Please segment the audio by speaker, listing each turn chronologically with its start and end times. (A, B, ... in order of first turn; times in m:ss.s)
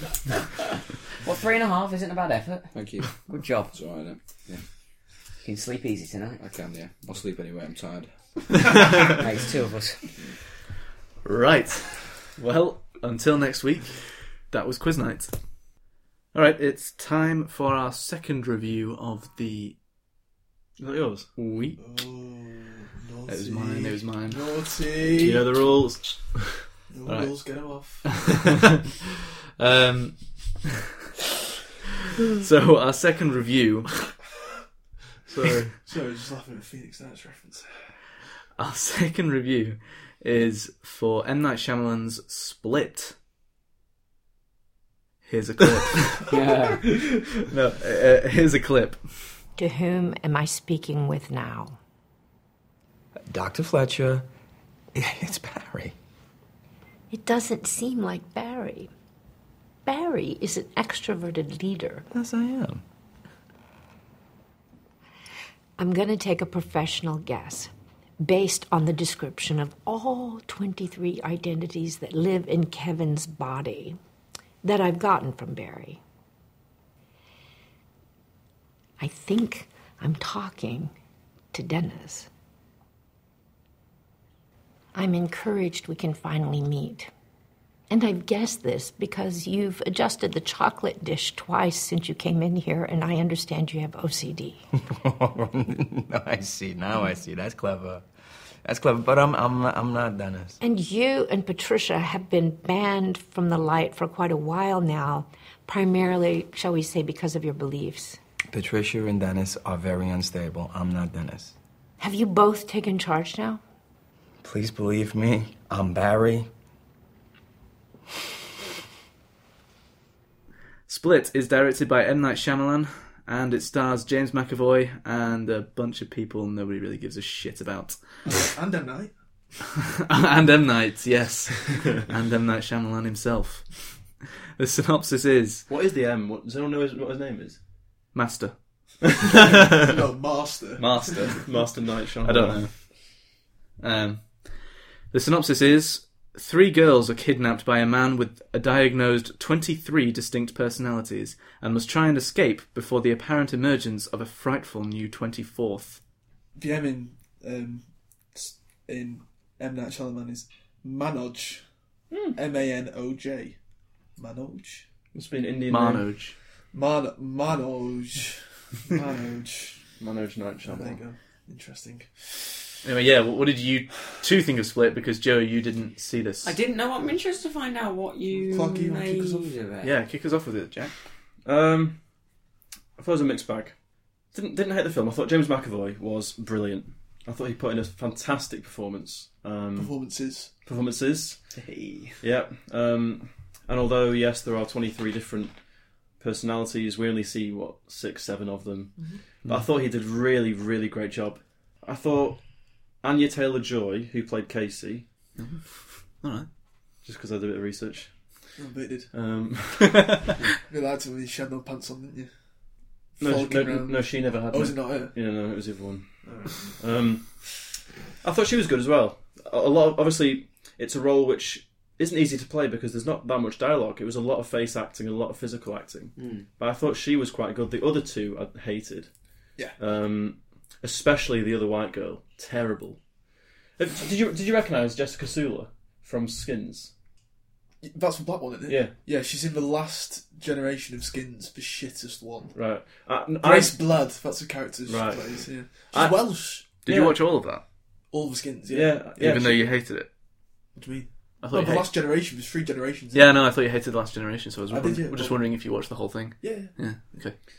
0:01.2-0:03.7 A
0:02.7-0:04.6 B
0:05.4-0:06.4 A
0:06.4-0:08.1 B
0:09.1-0:10.0 A
0:11.2-0:15.4 C
0:16.3-0:19.8 C
0:20.8-0:21.3 D
0:21.4-0:21.8 C
0:21.8-0:25.6 E
0:23.3-0:24.4 C
0:25.1-0:26.7 D
0:26.9-0:28.4 E
0:27.1-0:27.7 C
0:29.6-0:30.6 C
0:32.4-0:34.2 C
0:35.3-0:35.7 C
0:35.8-0:37.9 E
0:38.6-0:43.2 C
0:45.2-0:46.2 C
0:46.3-0:46.9 A
0:47.5-0:49.1 C
0:49.6-0:51.8 F
0:53.3-0:54.3 G
0:54.9-0:56.0 G
0:57.1-0:58.9 F
0:59.8-1:02.1 F
1:02.1-1:02.8 G
1:05.8-1:14.0 F
1:14.6-1:16.0 F
1:19.0-1:20.9 F
1:21.5-1:22.3 F
1:24.9-1:27.1 F
1:27.9-1:34.6 F
1:34.9-1:38.1 G
1:38.6-1:40.6 G
1:40.6-1:48.2 F
1:48.5-1:51.5 G
1:52.0-1:53.6 F
1:54.4-1:56.5 G
2:00.9-2:08.4 C
2:08.4-2:09.1 E
2:10.1-2:15.7 C
2:15.7-2:17.6 D
2:18.1-2:18.6 C
2:19.3-2:19.8 D
2:19.8-2:21.4 E
2:20.8-2:21.6 C
2:21.4-2:22.6 D
2:22.2-2:23.3 C
2:23.8-2:36.0 C
2:36.6-2:41.6 E
2:42.1-2:42.4 D
2:42.4-2:43.6 E
2:44.2-2:44.9 E
2:45.1-2:46.1 D
2:45.7-2:46.4 C
2:46.7-2:49.9 E
2:50.0-2:51.0 D
2:50.6-2:52.4 E
2:52.8-2:56.6 C
2:56.4-2:59.9 A
2:58.3-2:59.5 E
2:59.8-3:00.9 C
3:01.4-3:02.0 D
3:03.0-3:10.1 D
3:09.8-3:10.5 E
3:10.6-3:11.5 D
3:11.6-3:12.2 C
3:12.2-3:25.1 D
3:25.4-3:26.5 C
3:27.0-3:28.6 D
3:28.6-3:29.1 E
3:29.1-3:30.2 D
3:30.6-3:35.2 E
3:33.2-3:49.1 D
3:36.2-3:36.8 E
3:46.2-3:46.4 A
3:49.8-3:53.0 D
3:53.8-3:56.9 D
3:57.8-4:02.6 E
3:58.7-3:58.9 D
4:02.6-4:04.0 D
4:03.4-4:06.7 E
4:04.9-4:07.2 D
4:06.8-4:07.6 C
4:08.1-4:09.6 E
4:08.7-4:09.6 D
4:09.2-4:10.1 C
4:10.8-4:13.4 E
4:11.4-4:11.9 C
4:13.1-4:17.4 C
4:14.7-4:15.5 E
4:16.4-4:16.7 E